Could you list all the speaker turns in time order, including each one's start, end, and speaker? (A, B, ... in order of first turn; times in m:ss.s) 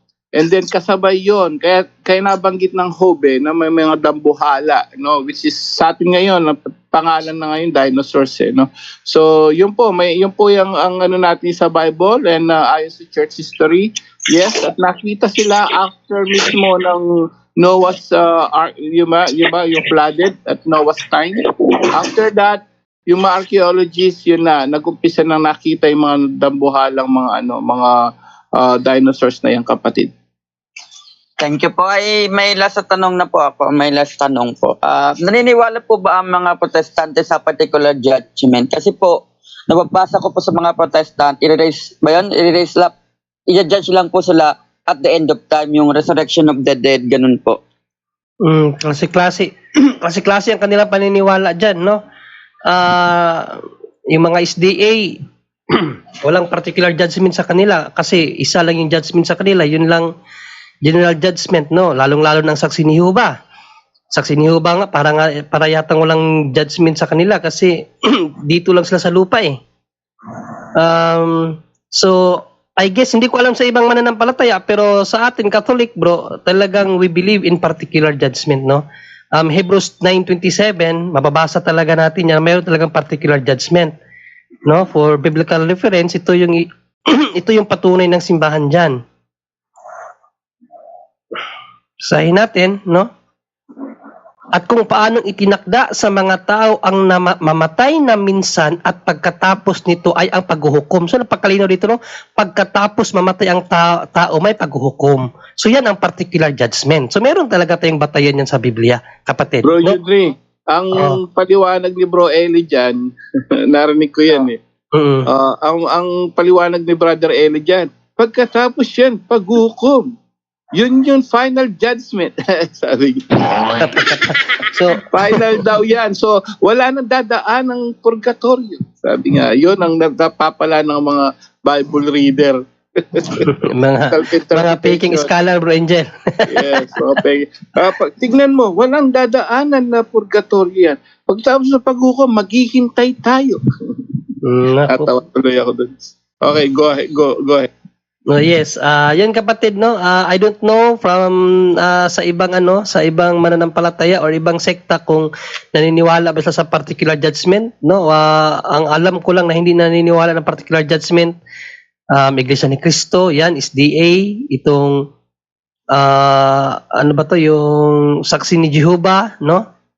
0:00.3-0:17.1 A
0:17.6-0:28.0 A
0:28.6-0:30.1 A
0:31.4-0:42.9 B
0:43.5-0:47.6 B
0:48.4-0:52.0 C
0:52.7-0:55.2 C
0:55.7-1:00.1 C
1:00.8-1:03.3 C
1:04.1-1:09.6 C
1:10.8-1:18.8 C
1:19.4-1:23.9 C
1:24.6-1:29.0 C
1:32.0-1:33.1 C
1:34.5-1:50.0 C
1:49.6-1:53.0 A
1:53.7-1:54.6 A
1:54.9-1:55.3 C
1:55.3-2:00.1 A
2:00.7-2:03.9 A
2:03.8-2:05.4 C
2:05.1-2:13.5 A
2:13.4-2:16.8 C
2:14.1-2:15.3 A
2:16.5-2:24.0 A
2:24.4-2:25.1 C
2:24.9-2:27.7 A
2:28.3-2:41.3 C
2:42.1-2:45.1 C
2:45.9-2:49.6 C